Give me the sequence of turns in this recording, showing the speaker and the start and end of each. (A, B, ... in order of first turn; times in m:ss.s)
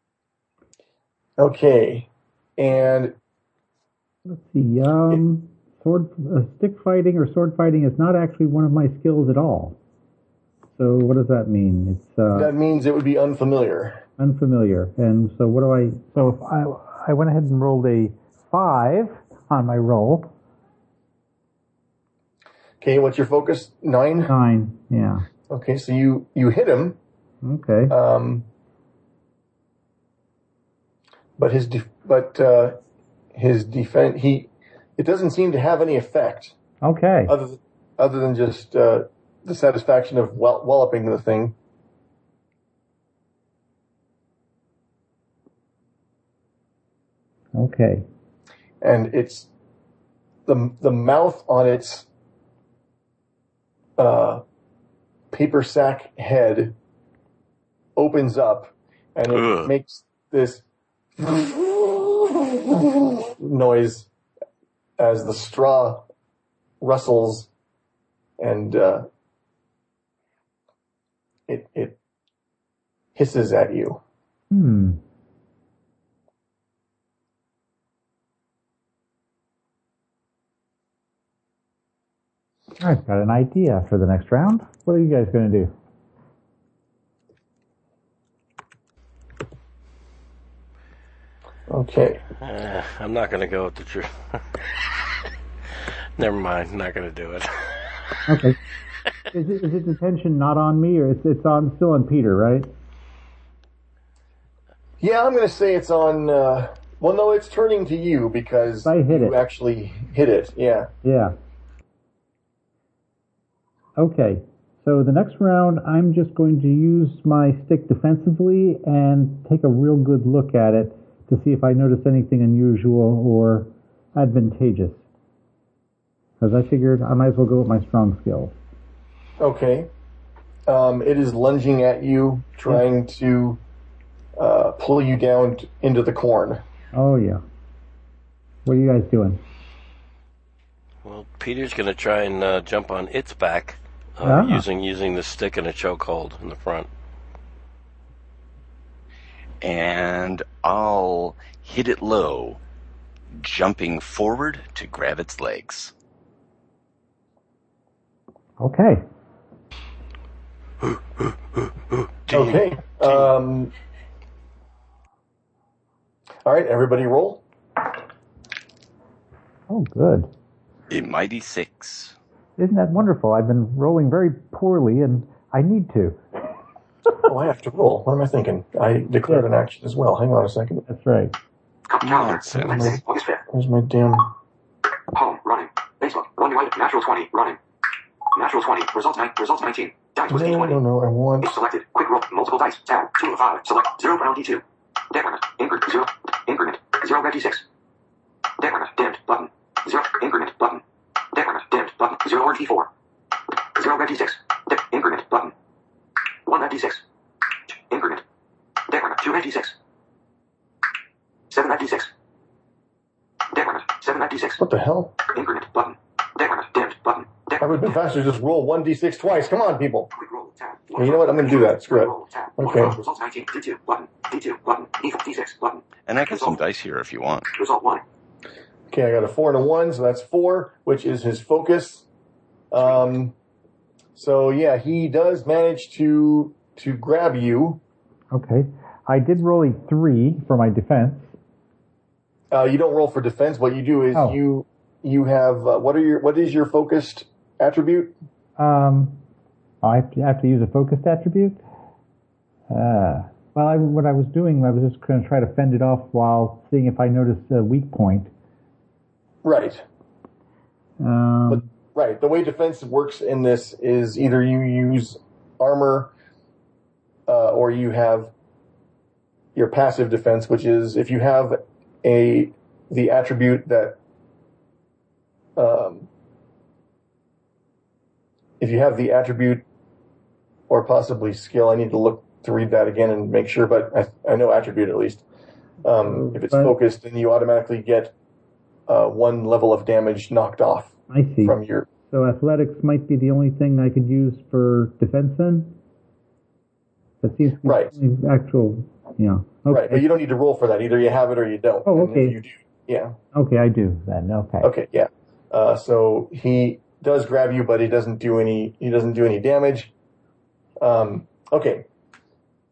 0:01.4-0:03.2 A
0:04.3-0:09.8 B
0:10.8-0:12.5 B
0:12.3-0:14.0 A
0:14.2-0:20.3 B
0:22.8-0:24.4 A
0:24.3-0:25.3 B
0:25.5-0:27.0 A
0:27.4-0:28.0 B
0:27.9-0:28.5 A
0:31.4-0:32.8 A
0:33.4-0:36.6 A
0:36.8-0:37.3 B
0:37.3-0:41.6 A
0:47.6-0:48.1 B
0:48.8-0:49.5 A
0:50.5-0:52.1 A
0:54.0-0:54.4 A
0:55.3-0:56.8 A
0:58.0-1:00.6 A
0:59.3-0:59.7 C
1:01.2-1:04.1 A
1:05.0-1:06.1 A
1:06.8-1:07.5 A
1:08.4-1:09.1 A
1:11.5-1:12.0 A
1:13.2-1:14.0 A
1:14.5-1:15.0 B
1:22.8-1:25.7 B
1:31.7-1:32.2 A
1:32.4-1:34.7 D
1:36.2-1:38.2 D
1:38.3-1:38.6 B
1:39.3-1:42.7 B
1:45.0-1:50.9 A
1:48.8-1:49.4 B
1:51.0-1:51.4 B
1:54.0-2:05.0 B
2:06.4-2:08.6 B
2:09.4-2:09.9 A
2:10.7-2:13.6 A
2:14.4-2:16.6 A
2:16.9-2:17.4 B
2:18.6-2:19.4 B
2:21.0-2:26.9 D
2:24.2-2:24.6 B
2:29.6-2:32.6 C
2:33.3-2:35.9 C
2:38.6-2:39.0 B
2:42.3-2:43.7 A
2:46.5-2:47.4 A
2:49.7-2:50.3 B
2:50.9-2:52.2 C
2:52.6-2:56.2 B
2:57.2-3:00.9 A
3:00.9-3:01.4 B
3:01.9-3:03.4 E
3:02.0-3:02.9 C
3:02.6-3:04.3 A
3:05.1-3:07.6 E
3:08.3-3:10.8 E
3:10.3-3:11.6 A
3:11.4-3:17.6 E
3:18.6-3:22.9 E
3:23.7-3:25.5 E
3:26.5-3:27.0 E
3:27.7-3:28.2 E
3:28.8-3:29.8 E
3:31.5-3:32.1 E
3:33.5-3:34.6 E
3:34.6-3:35.2 A
3:35.2-3:37.9 E
3:37.6-3:40.1 A
3:40.1-3:46.6 E
3:41.0-3:43.0 A
3:46.1-3:47.5 C
3:47.5-3:48.0 E
3:48.9-3:52.1 A
3:52.7-3:53.3 A
3:54.2-3:57.8 A
3:58.3-4:01.3 B
4:02.5-4:08.1 A
4:08.6-4:09.2 B
4:09.8-4:11.6 B
4:12.7-4:18.3 B
4:19.4-4:19.8 A
4:21.0-4:21.7 B
4:21.5-4:26.1 A
4:27.3-4:28.3 A
4:29.6-4:34.0 A
4:35.6-4:36.1 A
4:38.6-4:39.6 A
4:40.7-4:45.2 A
4:45.8-4:48.1 A
4:46.1-4:46.8 B
4:48.9-4:51.9 A
4:51.1-4:51.6 B
4:52.1-4:55.8 B
4:57.2-5:00.0 B
4:57.6-4:57.9 A
4:59.7-5:03.2 A
5:01.9-5:02.4 B
5:03.3-5:04.7 B
5:04.6-5:09.9 A
5:10.8-5:11.8 A